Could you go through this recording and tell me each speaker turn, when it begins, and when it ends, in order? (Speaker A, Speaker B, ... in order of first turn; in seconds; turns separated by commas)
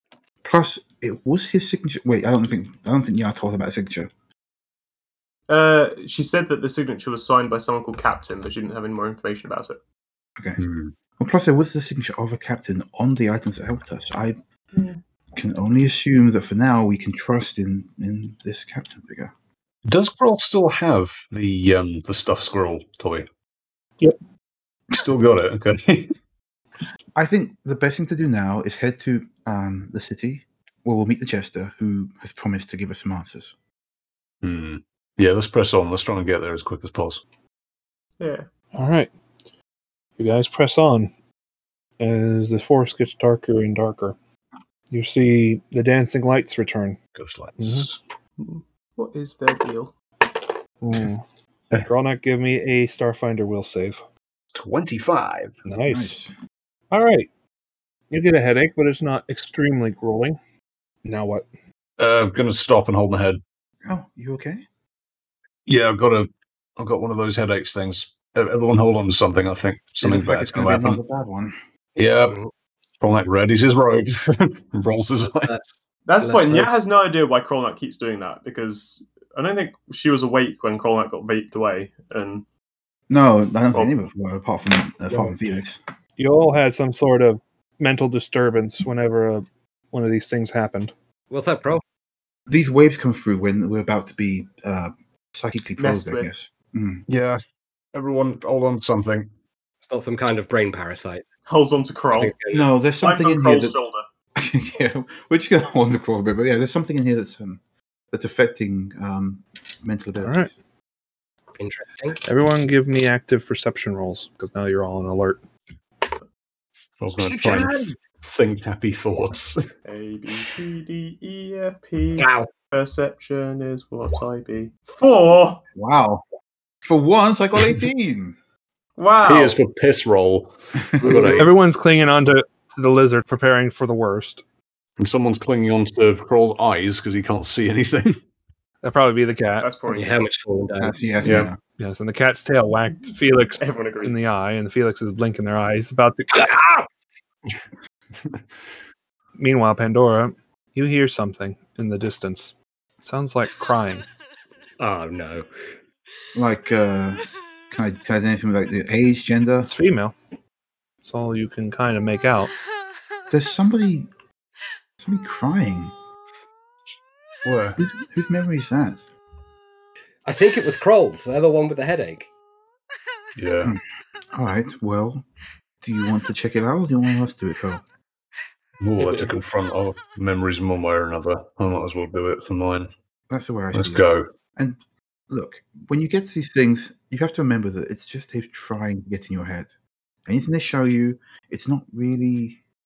Speaker A: 0.4-4.1, Speaker B: 5.5-9.8, Speaker C: 10.6-10.9, Speaker A: 11.2-14.4, Speaker B: 14.7-15.0, Speaker A: 15.3-19.3, Speaker C: 19.9-23.3, Speaker C: 24.9-26.1, Speaker A: 27.2-33.5, Speaker C: 34.4-37.2, Speaker B: 38.2-38.5, Speaker D: 38.8-39.1, Speaker D: 40.2-41.1, Speaker D: 42.0-44.2, Speaker D: 44.9-47.0, Speaker C: 47.1-48.0, Speaker D: 47.6-47.9, Speaker B: 48.4-49.9, Speaker D: 50.8-51.2, Speaker D: 51.8-54.0, Speaker C: 54.5-55.6, Speaker D: 55.6-56.2, Speaker A: 55.9-56.3, Speaker D: 56.9-57.3, Speaker D: 58.1-60.4, Speaker D: 61.0-61.5, Speaker C: 62.0-63.4, Speaker A: 63.9-64.6, Speaker C: 65.7-71.0, Speaker A: 70.0-71.6, Speaker C: 72.0-72.4, Speaker C: 73.0-75.7, Speaker E: 75.3-75.6, Speaker B: 76.1-82.5, Speaker E: 76.2-76.7, Speaker A: 83.1-85.8, Speaker E: 85.1-85.4, Speaker D: 86.2-90.9, Speaker E: 91.3-91.8, Speaker A: 92.5-97.0, Speaker B: 95.8-96.3, Speaker C: 97.1-97.4, Speaker C: 97.9-99.3, Speaker E: 99.8-101.3, Speaker B: 101.5-102.4, Speaker E: 102.1-102.7, Speaker A: 102.5-103.8, Speaker B: 103.0-104.0, Speaker A: 104.4-107.6, Speaker A: 108.1-110.5, Speaker D: 110.2-110.5, Speaker E: 111.6-112.2, Speaker D: 112.2-115.4, Speaker C: 117.0-119.7, Speaker E: 117.2-117.9, Speaker B: 119.8-125.6, Speaker E: 122.2-122.5, Speaker A: 125.8-126.2, Speaker A: 126.8-128.4, Speaker B: 129.0-129.6, Speaker C: 129.2-131.5, Speaker E: 131.0-131.4, Speaker D: 131.4-134.4, Speaker C: 135.0-138.2, Speaker D: 138.8-139.7, Speaker B: 139.6-140.2, Speaker E: 139.9-141.1, Speaker A: 140.8-141.6, Speaker C: 141.2-141.5, Speaker D: 141.8-146.8, Speaker B: 143.6-144.2, Speaker D: 149.4-154.1, Speaker E: 154.8-155.5, Speaker A: 156.3-159.7, Speaker D: 159.6-160.2, Speaker D: 161.0-162.5, Speaker A: 163.3-164.1, Speaker A: 165.0-165.9, Speaker C: 167.4-167.8, Speaker A: 167.8-169.1, Speaker E: 170.2-172.3, Speaker C: 173.4-173.7, Speaker A: 174.3-175.2, Speaker A: 175.8-177.8, Speaker C: 178.8-182.9, Speaker E: 179.0-179.3, Speaker A: 183.3-184.0, Speaker C: 183.7-184.3, Speaker A: 185.3-189.7, Speaker A: 190.3-192.6